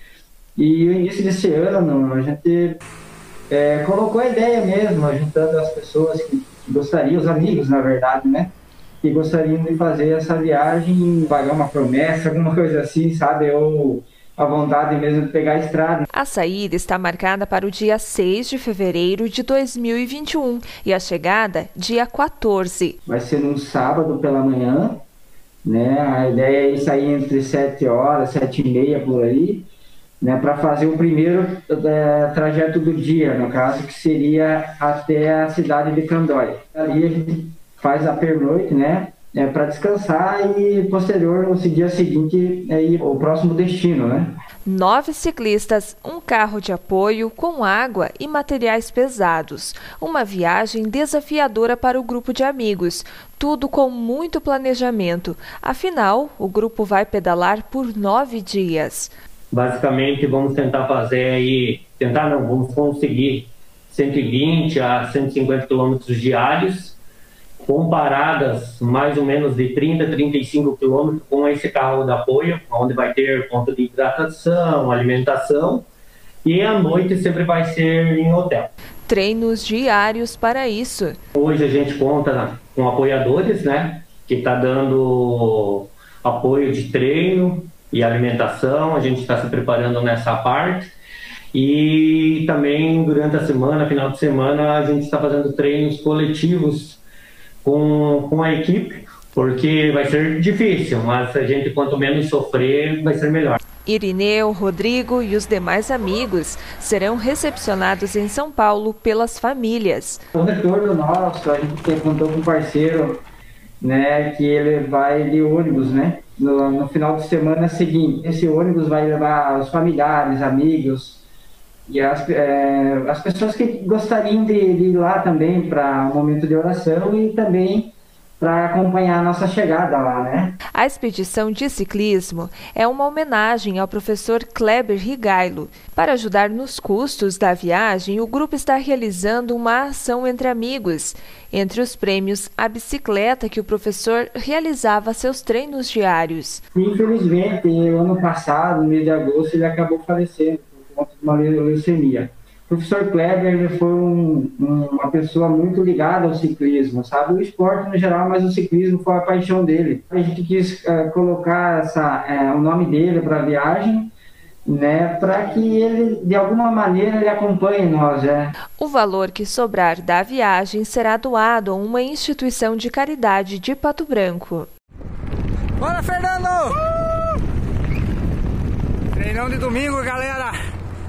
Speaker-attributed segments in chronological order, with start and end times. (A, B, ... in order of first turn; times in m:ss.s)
0:00.6-0:02.8 A
0:03.5-0:16.0 A
0:16.1-0:23.0 B
0:23.0-0:25.0 A
0:25.6-0:29.7 A
0:30.2-0:44.3 A
0:44.6-0:59.1 B
0:59.5-1:07.0 C
1:07.6-1:15.9 C
1:16.4-1:18.7 C
1:19.1-1:21.2 B
1:21.3-1:30.9 C
1:31.5-1:37.0 C
1:37.6-1:43.6 C
1:43.8-1:50.2 B
1:50.3-1:53.2 A
1:53.8-2:01.2 A
2:01.9-2:10.6 A
2:10.8-2:26.6 B
2:26.7-2:44.1 A
2:44.7-2:48.5 A
2:48.8-2:54.7 B
2:55.8-2:56.8 D
2:59.1-3:00.6 D